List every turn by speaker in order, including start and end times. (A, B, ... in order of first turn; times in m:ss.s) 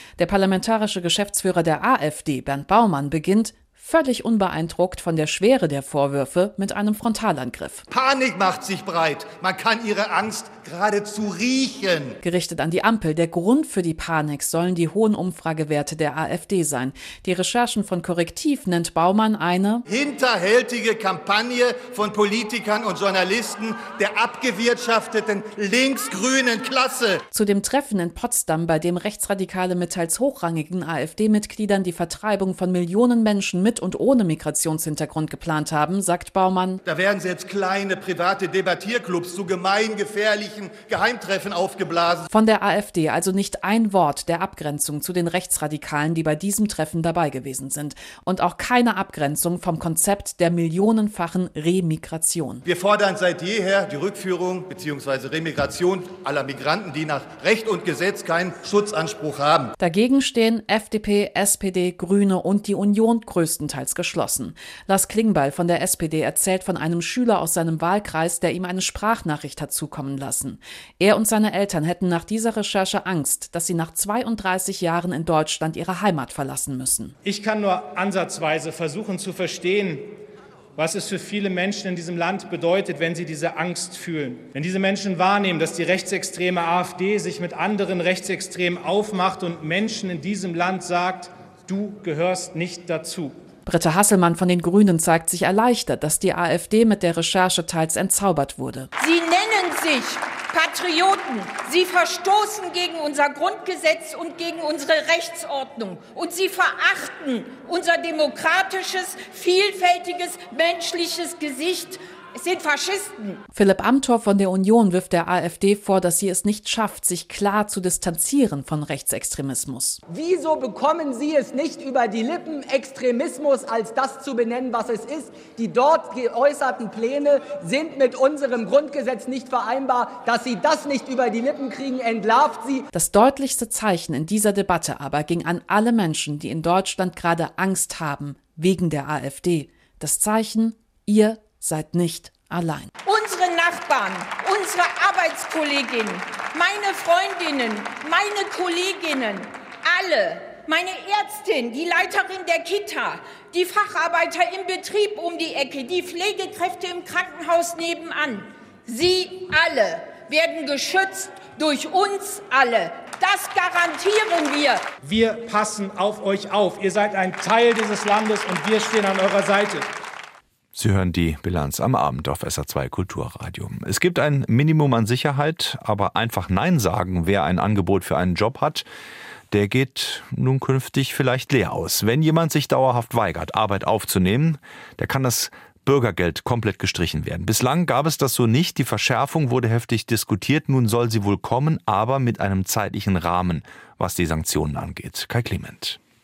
0:00.2-0:07.8 A
0:07.9-0:12.2 B
0:12.2-0:19.8 A
0:19.9-0:27.2 B
0:27.3-0:36.8 A
0:36.8-0:42.3 B
0:42.3-0:52.6 A
0:52.6-0:59.7 B
0:59.8-1:17.2 A
1:17.2-1:20.1 C
1:20.8-1:33.4 C
1:33.6-1:38.9 A
1:39.0-1:53.4 D
1:53.5-2:00.0 A
2:00.1-2:12.9 E
2:12.9-2:22.9 A
2:23.0-2:44.8 D
2:45.0-2:49.8 C
2:50.7-2:58.8 F
2:59.5-3:16.0 F